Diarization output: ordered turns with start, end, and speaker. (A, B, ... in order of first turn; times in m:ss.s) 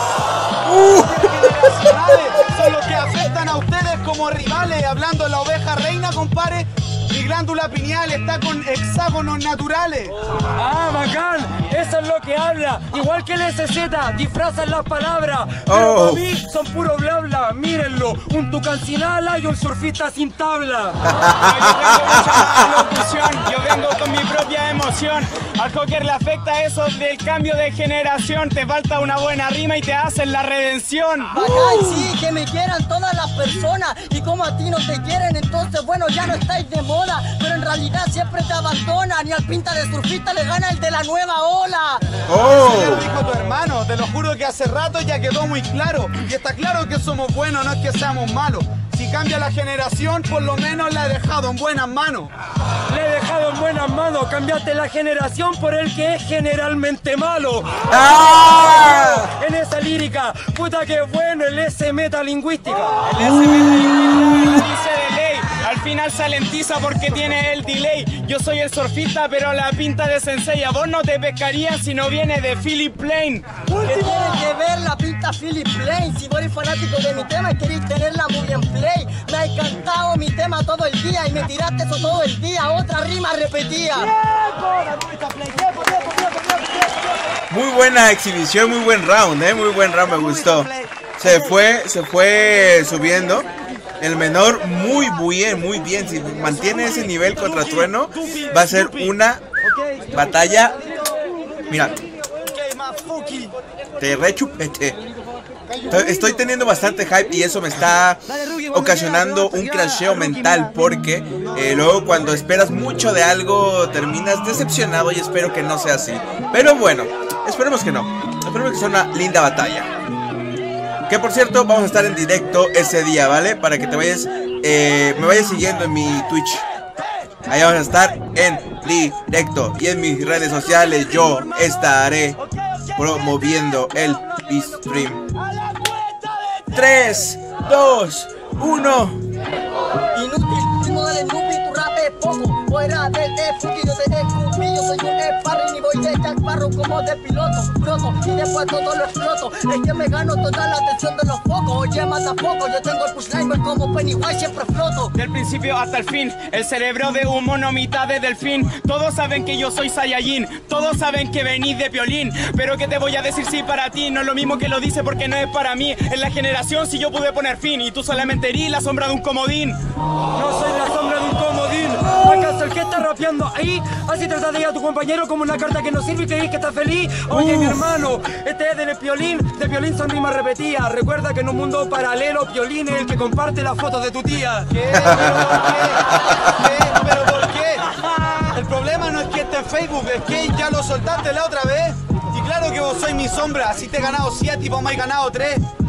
0:00.7-0:01.0 A
0:00.8-0:10.1 B
0:10.5-0:21.0 C
0:15.6-0:16.2 A
0:21.2-0:31.4 D
0:31.3-0:42.0 E
0:42.3-0:43.0 A
0:42.3-0:52.3 B
0:52.9-1:03.0 C
0:57.9-0:59.3 A
1:03.0-1:14.4 D
1:13.8-1:24.2 E
1:27.5-1:33.5 A
1:34.0-1:39.4 A
1:40.1-1:40.8 A
1:41.7-1:42.0 A
1:44.0-1:45.0 A
1:45.9-1:59.9 A
2:01.1-2:06.6 A
2:07.4-2:15.2 A
2:15.6-2:16.2 C
2:16.6-2:19.2 A
2:20.1-2:35.1 E
2:35.1-2:49.8 D
2:50.3-3:04.7 C
2:57.3-2:57.8 A
3:04.7-3:15.6 B
3:04.9-3:05.3 A